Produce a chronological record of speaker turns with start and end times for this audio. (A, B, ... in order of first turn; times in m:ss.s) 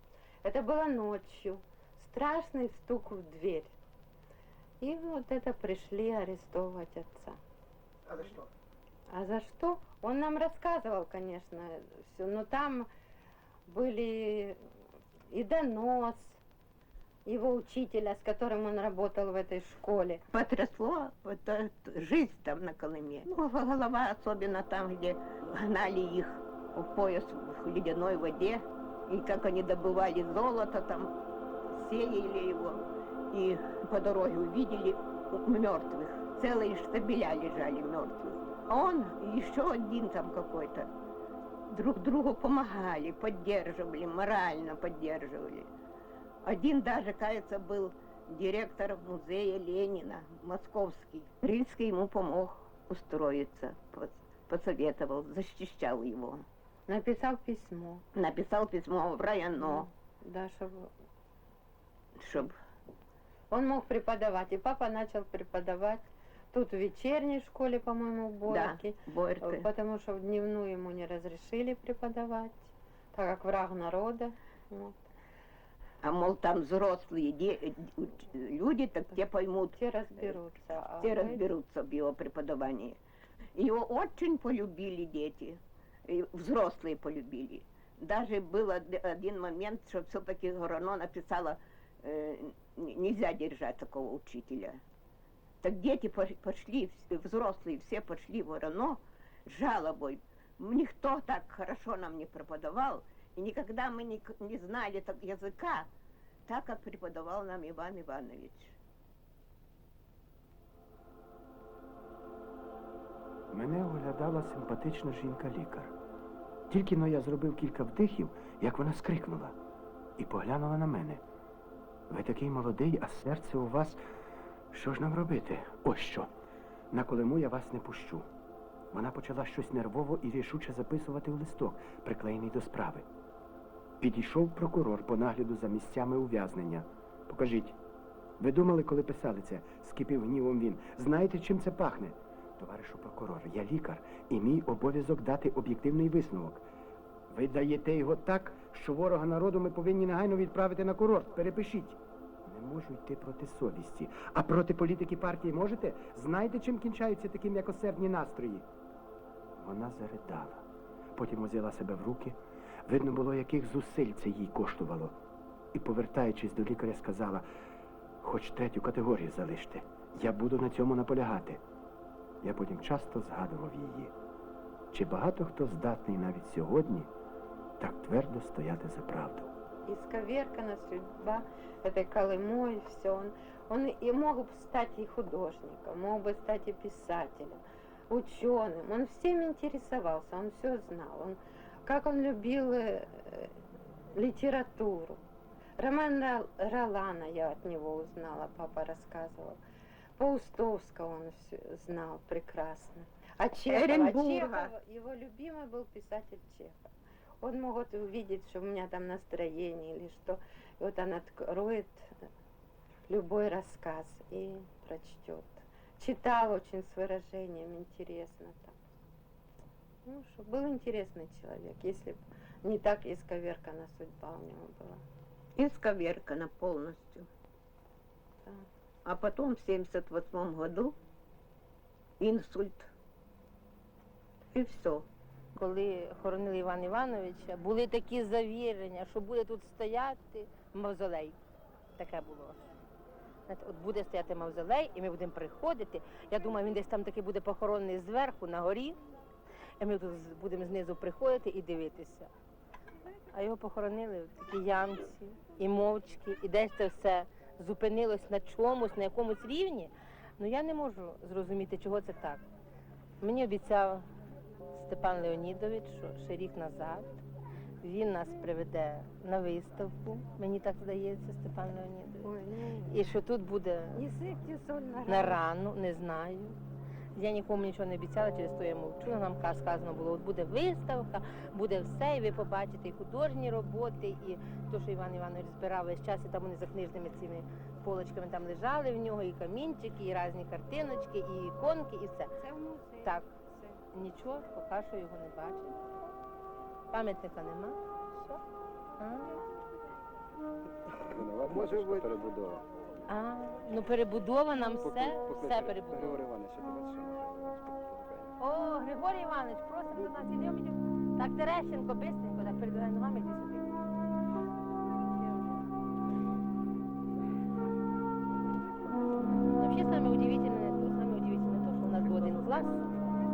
0:00.4-0:03.8 A
0:04.8-0:07.4 A
0:09.1-0:12.9 A
0:13.7-0:14.6 A
0:15.3-0:16.4 A
0:17.3-0:20.2 A
0:20.3-0:31.2 B
0:31.7-0:40.9 B
0:41.7-0:45.7 B
0:46.4-0:56.4 B
0:56.9-0:58.0 A
0:58.1-0:59.9 B
0:59.6-1:00.9 A
1:02.2-1:02.5 B
1:03.5-1:15.1 A
1:08.5-1:09.6 B
1:16.0-1:20.4 B
1:19.8-1:21.5 A
1:21.0-1:23.0 B
1:23.6-1:34.8 B
1:35.6-1:45.9 B
1:46.5-1:48.8 B
1:53.5-1:55.9 C
1:56.7-1:59.6 C
2:00.2-2:01.2 C
2:02.1-2:04.0 C
2:04.7-2:06.3 C
2:06.9-2:08.3 C
2:08.9-2:13.0 C
2:14.0-2:17.8 C
2:18.4-2:26.6 C
2:27.3-2:38.7 C
2:39.6-2:45.2 C
2:45.7-2:47.5 C
2:48.2-2:51.6 C
2:52.4-2:54.1 C
2:54.9-2:57.1 C
2:57.8-2:59.5 C
2:59.9-3:13.6 A
3:14.2-3:15.2 A
3:15.8-3:19.6 A
3:20.2-3:26.9 A
3:23.7-3:24.7 B
3:27.4-3:32.2 A
3:33.1-3:38.8 A
3:40.1-3:45.0 A
3:45.6-3:47.3 B
3:49.0-3:51.0 B
3:52.2-3:52.9 B
3:54.5-3:55.1 B
3:55.6-4:01.4 D
4:02.0-4:02.7 D
4:03.5-4:09.0 D
4:09.8-4:12.3 D
4:13.3-4:22.4 D
4:23.2-4:24.0 D
4:24.7-4:27.2 D
4:27.8-4:32.3 D
4:32.2-4:33.0 A
4:32.8-4:34.1 D
4:34.0-4:35.4 A
4:35.1-4:36.6 D
4:37.2-4:56.0 D
4:56.9-4:58.4 D
4:59.0-4:59.4 D
5:01.0-5:02.6 E
5:03.1-5:06.2 D
5:04.7-5:08.4 E
5:08.4-5:13.7 D
5:19.4-5:22.9 D